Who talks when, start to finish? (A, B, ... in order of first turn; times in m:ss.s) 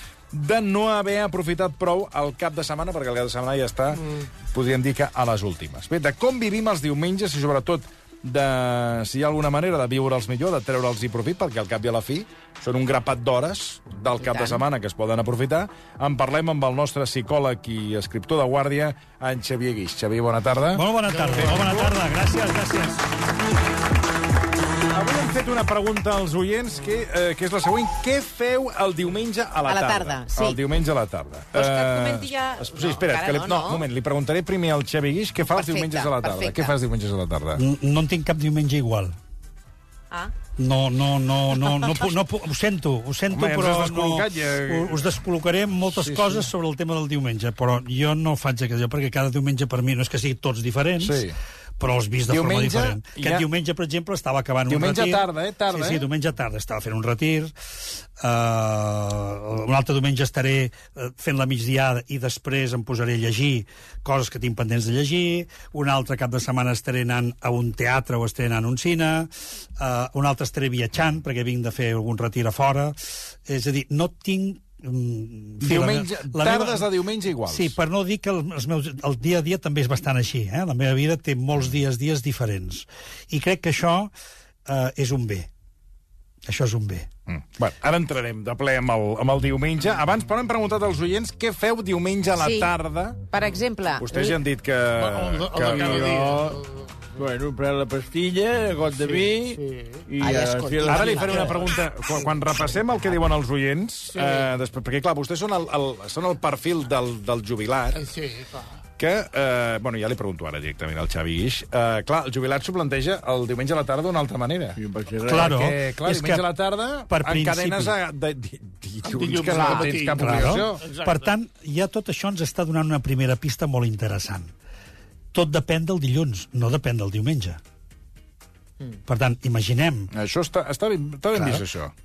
0:00.3-0:21.8 A
0:14.2-0:14.6 B
0:20.7-0:23.1 C
0:21.2-0:21.8 D
0:24.9-0:37.6 A
0:29.7-0:30.6 B
0:31.5-0:33.9 B
0:35.5-0:36.8 B
0:37.6-0:39.2 C
0:40.6-0:51.2 C
0:43.3-0:45.0 A
0:45.9-0:46.5 A
0:51.0-0:51.4 A
0:51.8-1:16.9 C
0:52.3-0:53.5 A
0:54.7-0:56.1 A
1:15.6-1:17.8 A
1:17.5-1:24.1 C
1:24.7-1:25.5 C
1:26.4-1:27.1 C
1:27.3-1:33.2 A
1:32.4-1:32.7 B
1:33.3-1:34.4 B
1:34.0-1:36.2 A
1:34.9-1:37.1 D
1:35.7-1:36.6 E
1:37.2-1:41.5 E
1:39.0-1:40.1 D
1:40.2-1:41.6 B
1:40.9-1:48.0 A
1:44.1-1:44.5 D
1:47.9-1:48.8 D
1:49.0-1:54.8 A
1:54.8-1:55.6 E
1:55.2-1:56.4 C
1:55.3-2:00.9 A
1:57.1-1:58.0 C
1:59.0-2:01.3 D
2:00.2-2:04.5 C
2:05.3-2:07.6 C
2:09.1-2:10.1 C
2:10.1-2:11.9 A
2:11.3-2:11.6 C